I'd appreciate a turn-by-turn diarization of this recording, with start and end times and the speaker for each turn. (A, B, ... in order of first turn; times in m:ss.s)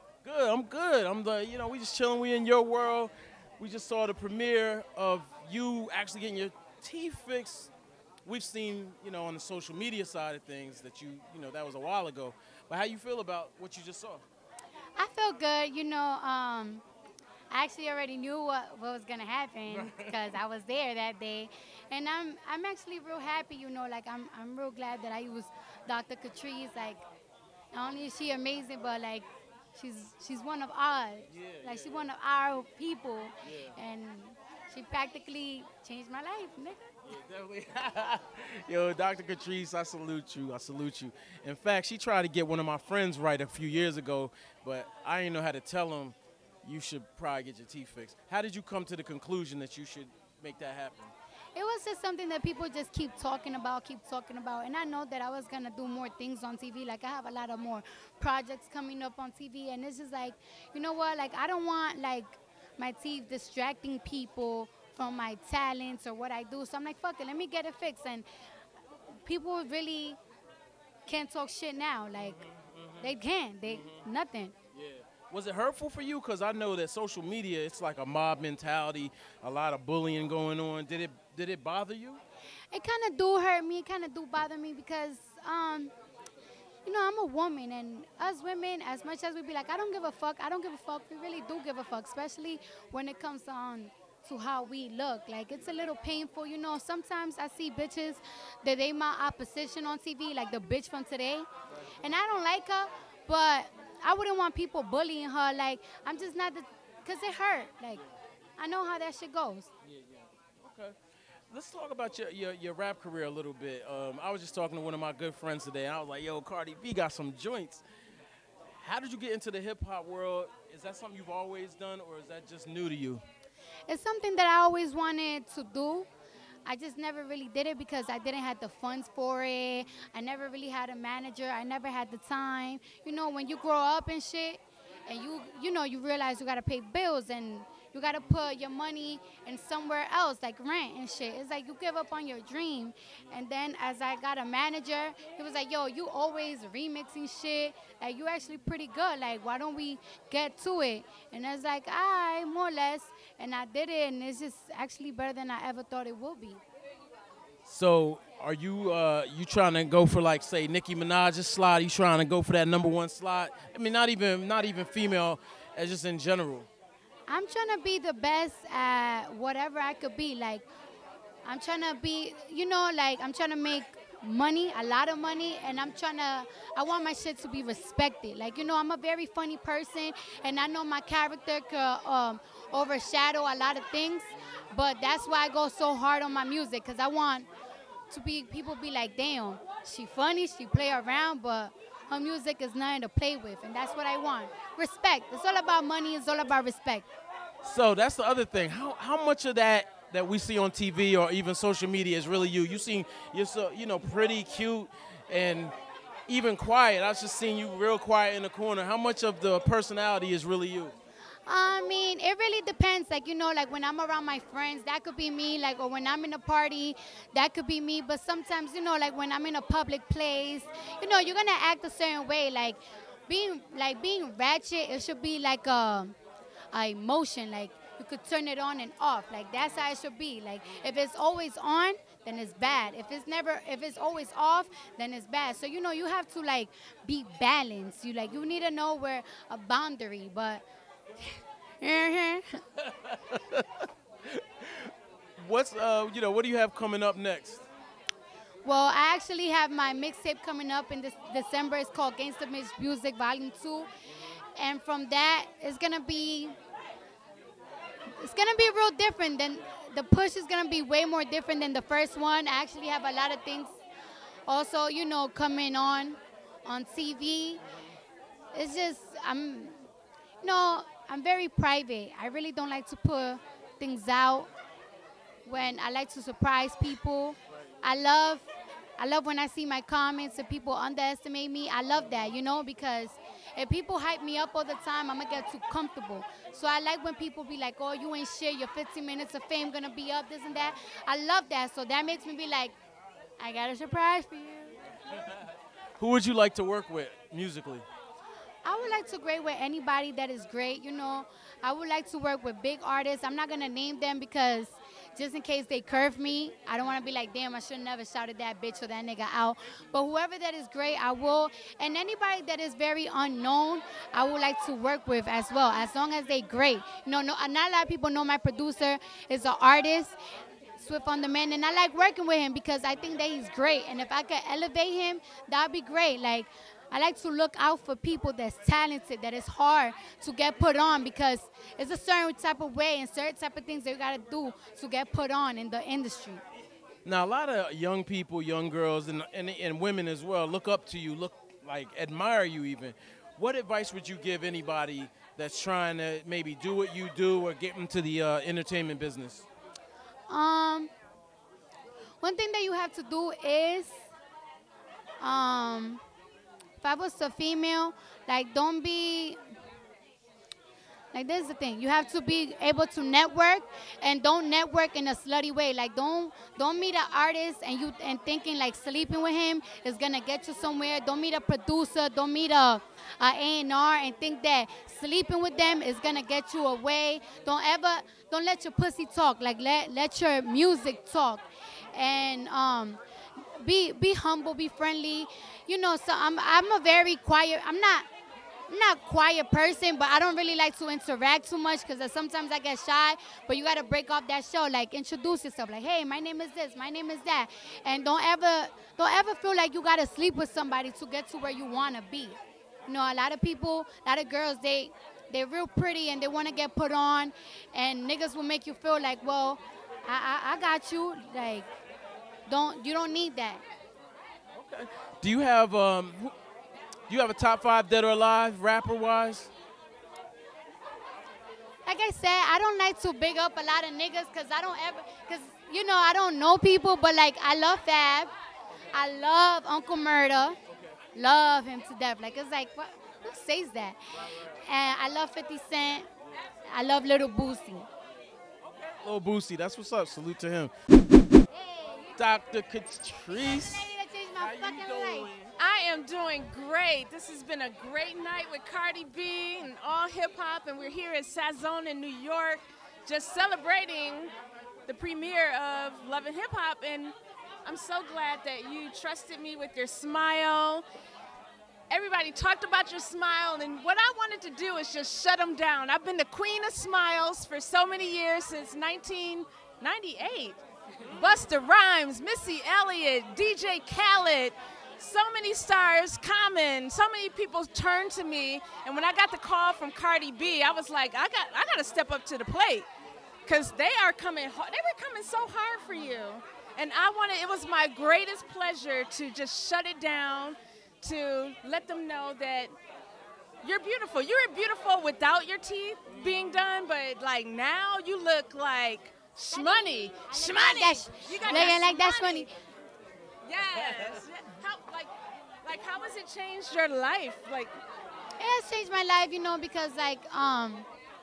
0:00.2-0:07.7 A
0:08.2-0:14.2 A
0:15.0-0:16.8 B
0:17.5-0:27.0 B
0:19.7-0:20.4 A
0:27.7-0:36.9 B
0:31.3-0:32.1 A
0:33.5-0:33.7 A
0:37.1-0:51.1 A
0:51.6-1:08.3 B
1:09.2-1:10.2 B
1:11.1-1:12.4 B
1:12.2-1:13.1 A
1:13.0-1:14.5 B
1:13.7-1:14.0 A
1:14.7-1:22.2 A
1:22.7-1:25.9 B
1:26.8-1:41.5 B
1:42.0-1:48.0 B
1:48.6-1:49.7 B
1:49.9-1:51.0 A
1:51.5-1:57.8 A
1:58.8-2:03.2 A
2:03.9-2:06.1 B
2:06.7-2:36.6 B
2:37.7-2:46.7 A
2:47.3-2:50.7 B
2:51.4-3:07.5 B
3:08.1-3:17.1 B
3:17.6-3:25.7 A
3:26.3-3:31.0 A
3:31.5-3:46.2 B
3:46.7-4:00.6 B
4:01.8-4:02.6 B
4:02.8-4:07.6 A
4:08.6-4:13.9 B
4:14.6-4:16.6 B
4:18.2-4:23.8 B
4:24.5-4:27.6 B
4:28.5-4:29.8 B
4:30.4-4:34.5 B
4:35.5-4:52.8 B
4:53.4-4:54.8 B
4:56.0-4:57.9 A
4:58.6-5:20.2 B
5:20.8-5:36.4 B
5:37.0-5:49.5 A
5:50.3-5:50.9 B
5:52.2-5:54.1 B
5:55.2-5:56.0 B
5:56.8-5:59.4 B
6:01.1-6:23.0 B
6:23.6-6:28.1 B
6:28.7-6:51.7 B
6:52.5-6:53.6 B
6:54.6-6:56.3 A
6:57.1-6:59.5 A
7:01.8-7:08.3 B
7:08.9-7:10.6 B
7:11.2-7:16.1 B
7:16.7-7:17.9 B
7:18.7-7:20.7 A
7:21.5-7:22.2 B
7:22.2-7:25.5 A
7:23.4-7:25.3 B
7:25.6-7:34.3 C
7:34.9-7:40.8 C
7:41.9-8:02.9 C
8:03.5-8:12.8 C
8:13.6-8:22.5 C
8:19.5-8:22.5 B
8:23.5-8:25.1 C
8:25.6-8:27.8 C
8:28.4-8:30.9 B